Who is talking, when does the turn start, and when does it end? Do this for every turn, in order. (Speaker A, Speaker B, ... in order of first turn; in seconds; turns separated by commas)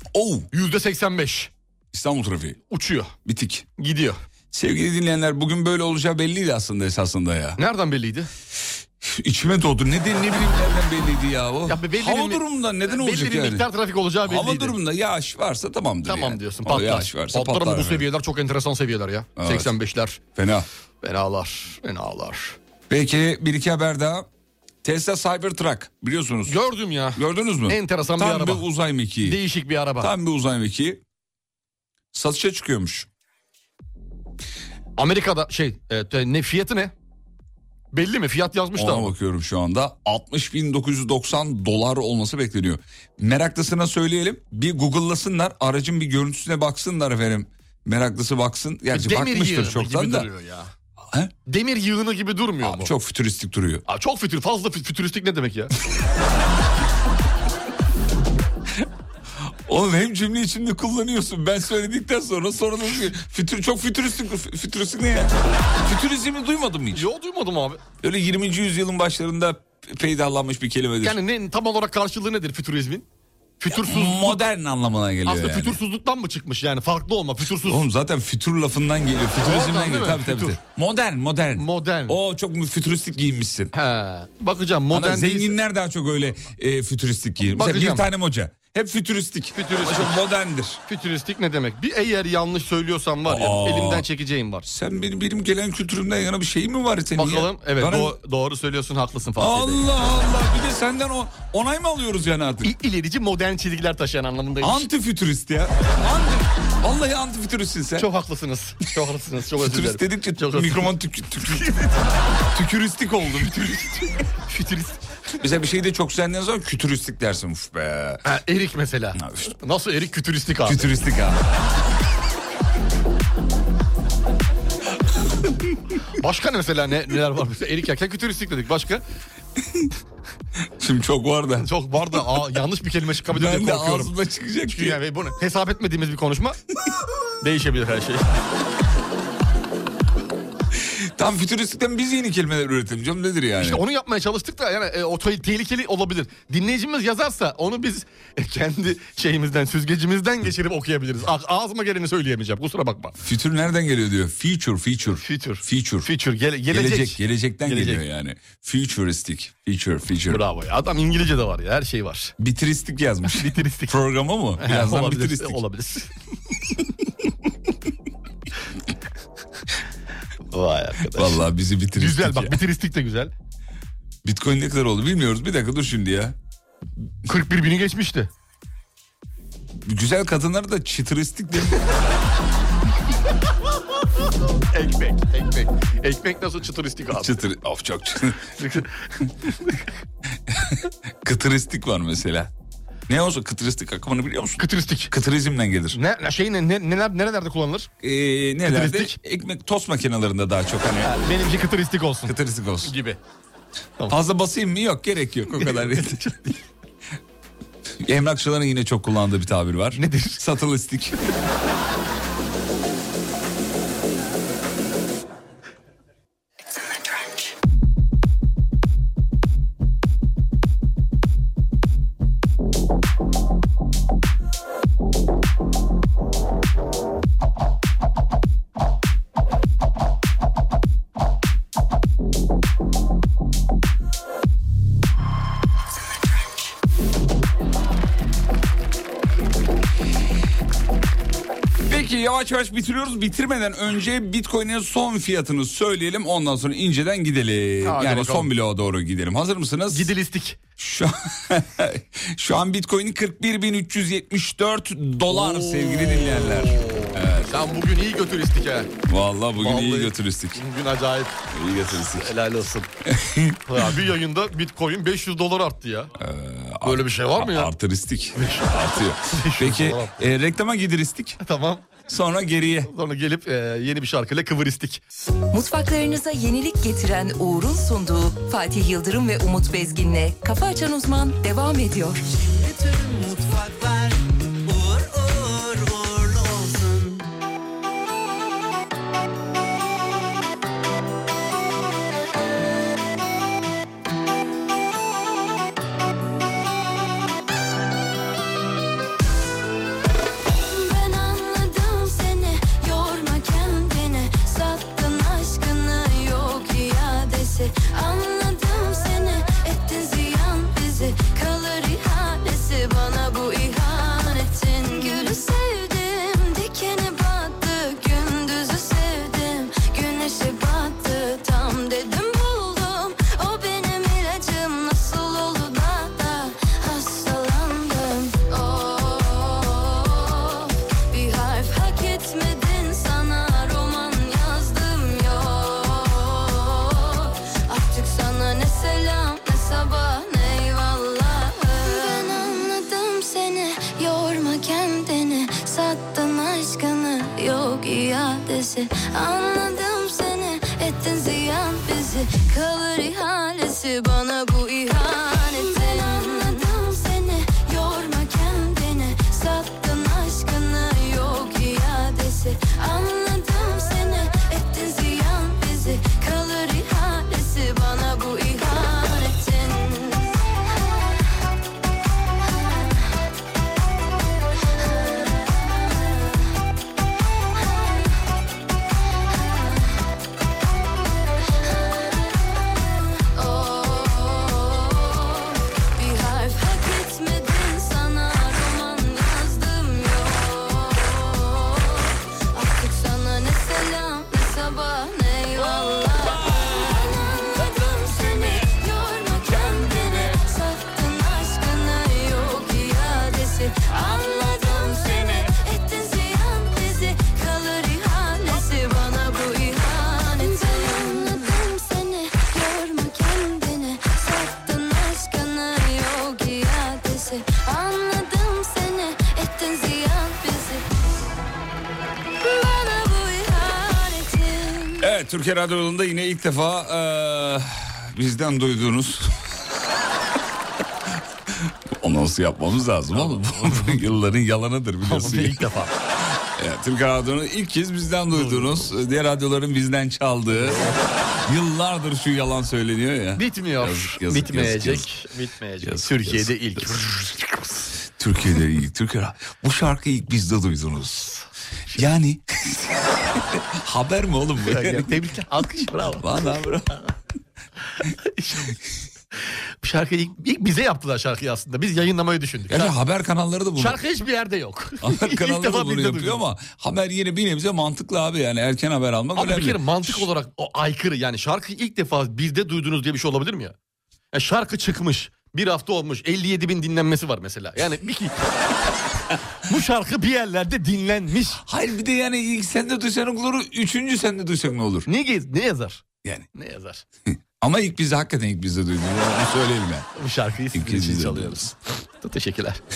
Speaker A: 0.1-0.5, Speaker B: 0.5-1.5, Speaker A: 1.9-2.6, Speaker B: 2.7-3.1, Speaker A: 3.2-3.7, Speaker B: 3.8-4.2, Speaker A: 4.5-7.6, Speaker B: 7.6-8.3, Speaker A: 9.0-13.7, Speaker B: 11.7-14.8, Speaker A: 14.2-18.1, Speaker B: 16.1-20.2, Speaker A: 19.4-19.7, Speaker A: 20.3-20.7, Speaker B: 21.0-22.6, Speaker A: 22.9-24.3, Speaker A: 24.8-26.6, Speaker B: 26.4-28.6, Speaker A: 27.1-29.4, Speaker B: 29.2-30.1, Speaker A: 30.0-31.0, Speaker A: 32.1-33.1, Speaker B: 35.0-36.9, Speaker B: 37.9-39.1, Speaker A: 38.8-50.3, Speaker B: 48.9-50.7, Speaker B: 51.5-52.9, Speaker A: 52.6-53.8, Speaker B: 53.9-55.7, Speaker A: 59.7-67.1, Speaker B: 66.9-67.8, Speaker A: 68.0-71.2, Speaker B: 71.0-73.0, Speaker B: 73.6-74.4, Speaker A: 73.8-75.8, Speaker B: 75.2-77.8, Speaker A: 77.6-83.7, Speaker B: 79.4-80.6, Speaker B: 81.5-82.2, Speaker B: 83.7-85.5, Speaker A: 84.9-90.8, Speaker B: 87.4-88.1, Speaker B: 89.5-90.2, Speaker B: 90.9-94.7, Speaker A: 93.2-94.0, Speaker A: 94.7-98.2, Speaker B: 97.2-99.9, Speaker A: 99.4-102.7, Speaker B: 102.6-104.9, Speaker A: 104.6-106.3, Speaker A: 106.8-108.1, Speaker B: 108.0-112.0, Speaker A: 109.6-111.7, Speaker A: 112.5-113.8, Speaker B: 113.3-115.0, Speaker A: 115.4-118.2, Speaker B: 118.2-120.9, Speaker A: 119.2-119.5, Speaker A: 120.6-121.4, Speaker B: 126.2-129.0, Speaker A: 130.8-132.2, Speaker B: 131.6-134.1, Speaker A: 133.3-135.0, Speaker B: 134.7-136.6, Speaker B: 137.4-138.3, Speaker A: 140.7-143.8, Speaker B: 143.6-153.2, Speaker A: 153.2-156.1, Speaker B: 155.2-158.0, Speaker A: 156.7-160.4, Speaker B: 160.3-162.3, Speaker A: 162.4-165.6, Speaker B: 163.3-164.0, Speaker B: 164.6-166.1, Speaker B: 170.5-173.3, Speaker A: 171.1-172.6, Speaker A: 174.2-176.3, Speaker B: 177.3-178.3, Speaker A: 179.8-181.8, Speaker B: 184.7-187.3, Speaker A: 187.1-188.4, Speaker B: 188.6-188.9, Speaker B: 189.5-189.8, Speaker A: 190.5-192.5, Speaker A: 193.1-196.0, Speaker B: 194.6-195.1, Speaker B: 195.9-197.9, Speaker A: 198.0-201.3, Speaker B: 198.6-199.2, Speaker B: 201.0-203.2, Speaker A: 202.3-202.9, Speaker A: 204.1-206.3, Speaker B: 205.5-206.6, Speaker A: 208.0-211.2, Speaker B: 210.0-210.4, Speaker A: 241.8-250.1, Speaker B: 247.8-248.5, Speaker B: 249.9-250.6, Speaker A: 250.8-257.5, Speaker B: 255.3-258.9, Speaker A: 259.1-260.6, Speaker B: 259.6-262.9, Speaker A: 261.5-262.3, Speaker A: 263.1-263.6, Speaker B: 263.7-266.1, Speaker A: 266.2-271.4, Speaker B: 266.8-267.7, Speaker B: 268.3-270.3, Speaker B: 271.4-271.9, Speaker A: 272.1-272.9, Speaker B: 272.9-275.0, Speaker C: 275.5-282.2, Speaker D: 282.3-287.2, Speaker E: 300.6-370.4, Speaker E: 374.9-376.3, Speaker E: 379.4-379.7, Speaker E: 381.6-382.4, Speaker E: 383.2-420.8, Speaker A: 395.6-398.7, Speaker A: 399.4-400.4, Speaker A: 404.6-405.5, Speaker E: 422.4-425.1, Speaker A: 425.0-429.4, Speaker A: 431.6-435.6, Speaker B: 433.1-434.0, Speaker B: 435.1-435.9, Speaker A: 436.6-445.1, Speaker B: 438.3-438.9, Speaker B: 440.5-441.0, Speaker B: 443.4-447.9, Speaker A: 445.8-447.0, Speaker A: 448.2-451.3, Speaker A: 451.9-455.2, Speaker B: 454.6-456.4, Speaker A: 456.1-457.0, Speaker B: 458.1-458.7, Speaker B: 459.8-462.9, Speaker A: 462.7-464.0, Speaker B: 463.8-466.4, Speaker A: 465.0-470.3, Speaker B: 469.4-473.7, Speaker B: 474.3-478.7, Speaker B: 479.6-481.6, Speaker A: 481.6-485.1, Speaker B: 485.1-487.0, Speaker A: 487.6-490.1, Speaker B: 490.2-492.8, Speaker A: 490.7-491.7